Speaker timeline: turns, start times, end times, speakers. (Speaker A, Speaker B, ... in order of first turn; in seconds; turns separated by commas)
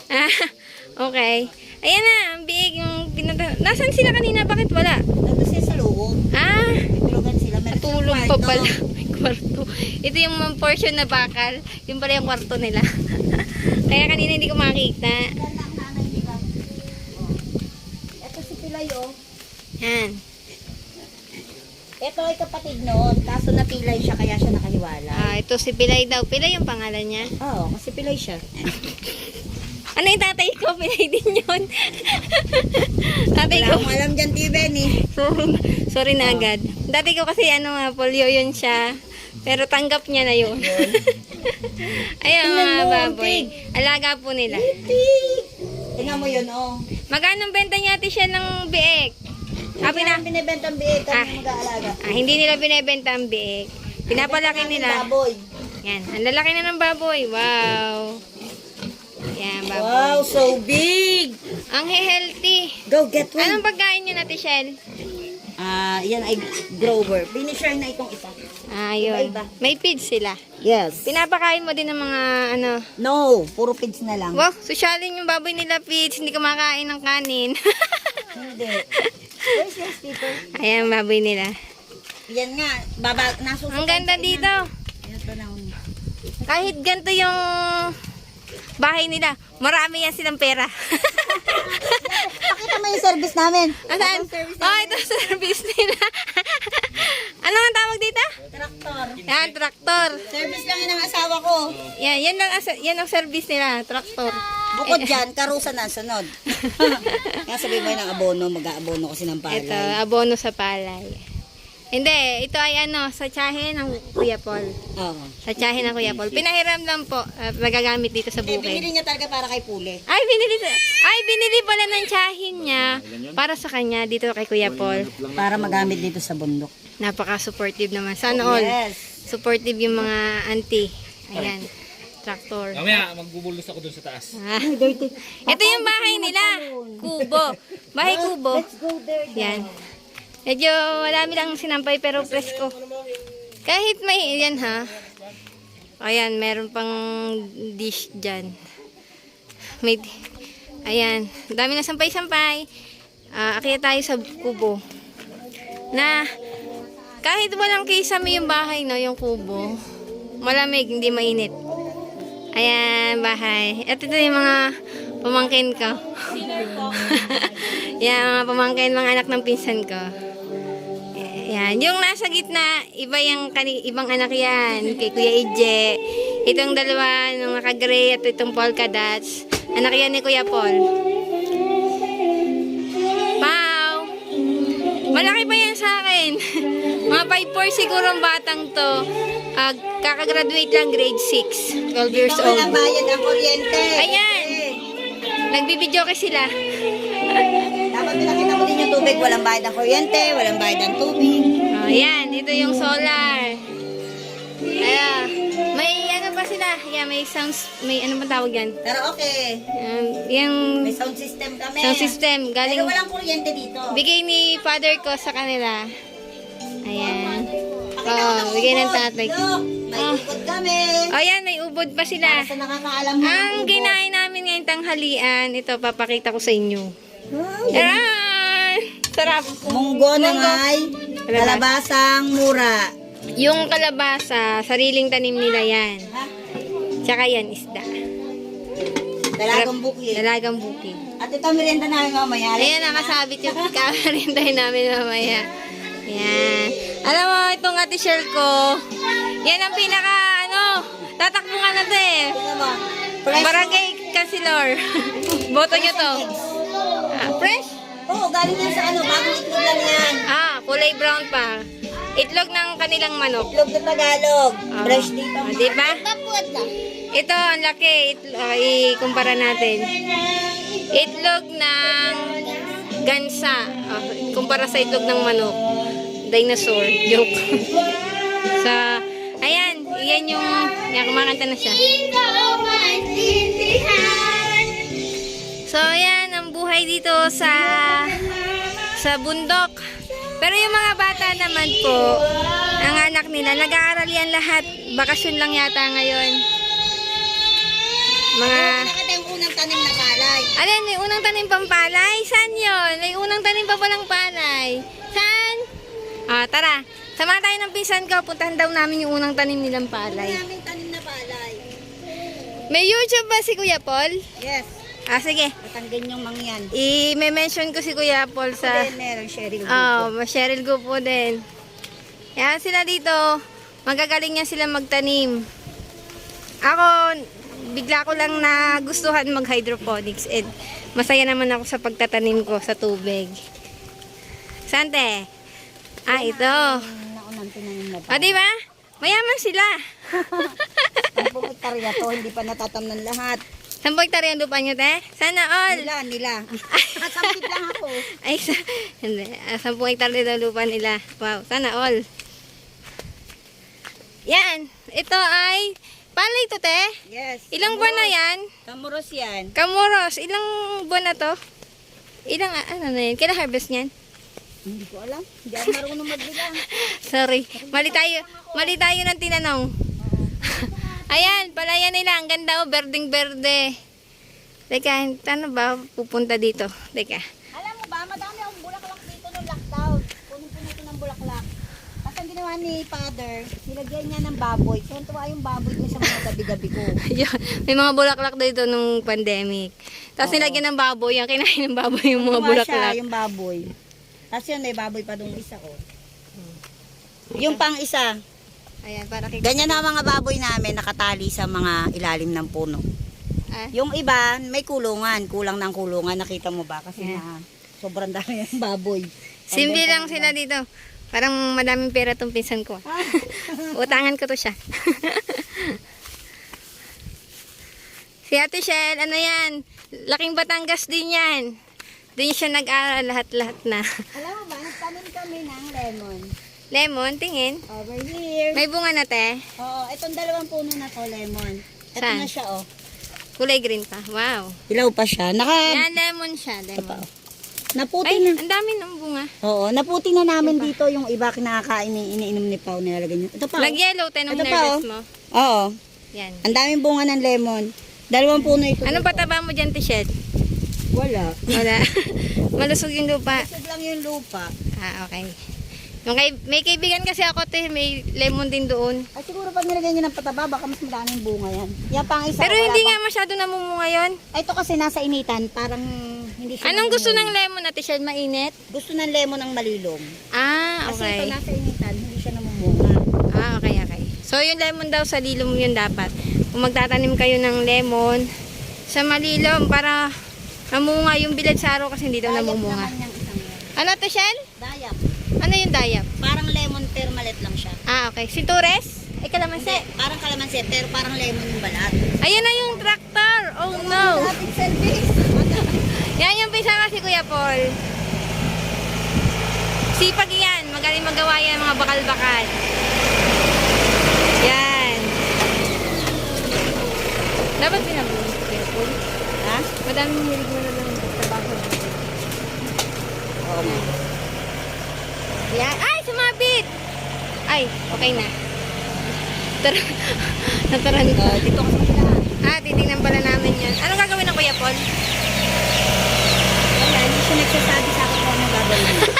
Speaker A: 0.1-5.0, Speaker B: 5.2-6.2, Speaker A: 6.3-6.9, Speaker B: 6.9-8.7, Speaker A: 7.7-15.3, Speaker B: 15.3-16.5, Speaker B: 18.2-19.1, Speaker A: 19.8-20.2, Speaker B: 22.0-25.3, Speaker A: 25.1-27.3, Speaker B: 27.4-28.9, Speaker A: 29.9-34.0, Speaker B: 33.4-35.0, Speaker A: 35.0-44.7, Speaker B: 36.2-36.5, Speaker B: 40.6-41.0, Speaker B: 42.4-43.5, Speaker B: 44.5-46.8, Speaker A: 47.1-49.1, Speaker A: 49.8-50.2, Speaker B: 49.8-52.1, Speaker A: 51.1-51.4, Speaker A: 52.0-55.1, Speaker B: 54.1-55.4, Speaker A: 55.8-58.2, Speaker A: 59.4-60.3, Speaker B: 59.7-61.4, Speaker A: 61.7-62.8, Speaker B: 62.9-63.6, Speaker A: 63.4-64.8, Speaker B: 65.6-68.3, Speaker A: 68.7-70.4, Speaker B: 69.0-69.5, Speaker B: 70.6-71.1, Speaker A: 71.0-72.8, Speaker B: 73.0-74.4, Speaker A: 74.3-78.3, Speaker B: 78.3-78.8, Speaker A: 79.0-79.6, Speaker B: 79.5-80.6, Speaker A: 80.5-81.5, Speaker B: 82.3-85.8, Speaker A: 83.7-84.7, Speaker A: 86.4-88.0, Speaker A: 88.8-92.5, Speaker B: 91.2-95.3, Speaker A: 93.8-98.3, Speaker B: 98.5-99.2, Speaker C: 99.0-100.4, Speaker A: 99.3-100.2, Speaker B: 100.2-101.7, Speaker A: 102.0-105.2, Speaker B: 104.7-110.0, Speaker A: 106.6-107.4, Speaker A: 109.5-111.2, Speaker A: 111.9-114.7, Speaker B: 115.0-115.3, Speaker A: 115.4-118.9, Speaker C: 115.6-116.4, Speaker B: 118.4-120.0, Speaker A: 120.1-125.1, Speaker C: 122.5-123.4, Speaker C: 124.6-126.1, Speaker B: 125.3-126.7, Speaker A: 127.0-131.7, Speaker B: 128.3-129.1, Speaker C: 131.3-131.6, Speaker A: 132.2-132.9, Speaker C: 132.7-134.4, Speaker A: 134.3-134.9, Speaker B: 134.6-137.2, Speaker A: 135.4-138.6, Speaker B: 138.0-139.8, Speaker A: 139.3-139.7, Speaker A: 140.4-142.8, Speaker A: 143.7-144.9, Speaker A: 146.0-148.5, Speaker A: 149.8-150.2, Speaker A: 150.8-152.6, Speaker A: 153.3-154.8, Speaker A: 155.9-156.3, Speaker A: 157.2-159.8, Speaker A: 160.4-161.5, Speaker A: 162.5-170.1, Speaker B: 166.3-167.1, Speaker A: 171.1-180.8, Speaker A: 183.4-184.1, Speaker A: 185.1-192.8, Speaker B: 192.1-194.8, Speaker A: 193.9-194.6, Speaker A: 195.5-197.7, Speaker B: 197.9-201.5, Speaker A: 201.7-203.6, Speaker A: 204.8-208.8, Speaker B: 208.8-209.6, Speaker A: 209.7-210.9, Speaker B: 210.8-214.0, Speaker A: 211.8-212.9, Speaker A: 213.9-215.9, Speaker A: 216.8-217.5, Speaker B: 217.1-221.1, Speaker A: 218.0-219.3, Speaker A: 219.9-220.2, Speaker A: 221.1-222.5, Speaker B: 222.2-224.0, Speaker A: 223.2-226.9, Speaker B: 227.3-228.0, Speaker A: 227.7-230.6, Speaker B: 229.7-232.9, Speaker A: 231.3-231.6, Speaker A: 233.4-236.1, Speaker B: 236.1-236.5, Speaker A: 237.0-237.9, Speaker B: 239.3-240.2, Speaker A: 239.5-241.0, Speaker B: 241.2-243.7, Speaker A: 242.6-245.5, Speaker A: 246.1-252.3, Speaker B: 252.3-253.8, Speaker A: 253.3-256.2, Speaker B: 255.7-257.4, Speaker A: 257.1-257.7, Speaker B: 258.1-260.2, Speaker A: 260.3-263.5, Speaker B: 263.5-266.7, Speaker A: 264.7-266.0, Speaker A: 267.1-269.9, Speaker B: 269.8-270.9, Speaker A: 270.9-275.6, Speaker A: 276.2-277.7, Speaker A: 278.5-281.8, Speaker B: 281.8-284.9, Speaker A: 285.7-288.2, Speaker B: 287.6-288.9, Speaker A: 288.9-289.8, Speaker A: 290.4-292.2, Speaker B: 291.3-293.0, Speaker A: 292.8-296.4, Speaker A: 298.3-298.9, Speaker B: 298.4-300.5, Speaker A: 300.6-305.6, Speaker A: 306.3-310.4, Speaker B: 310.1-311.6, Speaker A: 312.7-314.2, Speaker B: 314.4-314.8, Speaker A: 315.1-315.5, Speaker B: 315.6-316.7, Speaker A: 316.7-318.9, Speaker B: 318.6-320.1, Speaker A: 319.7-321.4, Speaker A: 322.4-323.2, Speaker A: 323.9-325.4, Speaker A: 326.6-333.3, Speaker A: 334.7-335.3, Speaker A: 336.1-336.8, Speaker B: 336.1-338.4, Speaker A: 338.1-341.3, Speaker B: 340.1-340.6, Speaker B: 341.1-343.4, Speaker A: 343.8-345.9, Speaker B: 345.7-348.1, Speaker A: 346.6-347.6, Speaker A: 348.1-352.0, Speaker A: 354.3-357.0, Speaker B: 357.1-359.5, Speaker A: 357.5-358.4, Speaker A: 359.6-361.4, Speaker A: 362.3-363.9, Speaker B: 364.6-366.6, Speaker A: 366.6-369.7, Speaker B: 367.5-368.8, Speaker B: 370.0-371.6, Speaker A: 371.1-373.8, Speaker A: 374.7-377.2, Speaker B: 377.5-381.5, Speaker B: 382.0-387.0, Speaker A: 387.0-393.0, Speaker B: 390.2-390.6, Speaker B: 392.1-393.7, Speaker B: 394.3-395.8, Speaker B: 397.3-398.1, Speaker A: 398.8-399.8, Speaker B: 399.4-402.8, Speaker B: 403.7-410.3, Speaker A: 409.5-410.6, Speaker A: 411.1-415.8, Speaker B: 412.9-414.0, Speaker A: 418.3-421.5, Speaker A: 422.2-423.9, Speaker B: 424.1-426.3, Speaker A: 426.7-427.6, Speaker B: 427.7-428.6, Speaker A: 428.5-429.4, Speaker B: 429.6-432.6, Speaker A: 432.0-432.3, Speaker A: 433.4-434.6, Speaker B: 434.7-435.9, Speaker A: 435.6-437.1, Speaker B: 436.8-437.1, Speaker B: 437.8-438.4, Speaker A: 438.0-439.3, Speaker B: 439.4-443.8, Speaker A: 440.4-440.7, Speaker A: 443.6-445.1, Speaker B: 444.3-445.8, Speaker A: 446.1-446.4, Speaker B: 446.4-449.3, Speaker A: 448.3-450.1, Speaker B: 450.9-451.6, Speaker A: 451.5-453.5, Speaker B: 453.3-454.5, Speaker A: 454.8-455.4, Speaker A: 456.1-459.0, Speaker B: 459.1-463.0, Speaker A: 462.4-464.2, Speaker B: 464.3-467.3, Speaker A: 466.6-468.5, Speaker B: 468.7-470.1, Speaker A: 470.4-471.3, Speaker B: 470.9-473.0, Speaker A: 473.3-478.3, Speaker A: 478.9-480.0, Speaker A: 480.7-482.9, Speaker B: 482.2-483.7, Speaker A: 483.8-484.4, Speaker B: 484.6-485.0, Speaker A: 485.4-486.1, Speaker B: 486.2-487.8, Speaker A: 487.9-489.9, Speaker B: 489.6-492.8, Speaker A: 492.2-494.4, Speaker B: 493.7-495.8, Speaker A: 495.7-497.7, Speaker A: 499.9-502.6, Speaker A: 504.4-505.2, Speaker A: 507.6-509.0, Speaker B: 509.4-509.7, Speaker A: 509.9-512.1, Speaker B: 513.4-513.9, Speaker A: 513.6-513.9, Speaker A: 515.5-516.7, Speaker A: 517.5-518.3, Speaker B: 517.9-518.3, Speaker A: 519.6-521.5, Speaker B: 521.1-522.3, Speaker A: 522.4-524.8, Speaker B: 526.7-529.1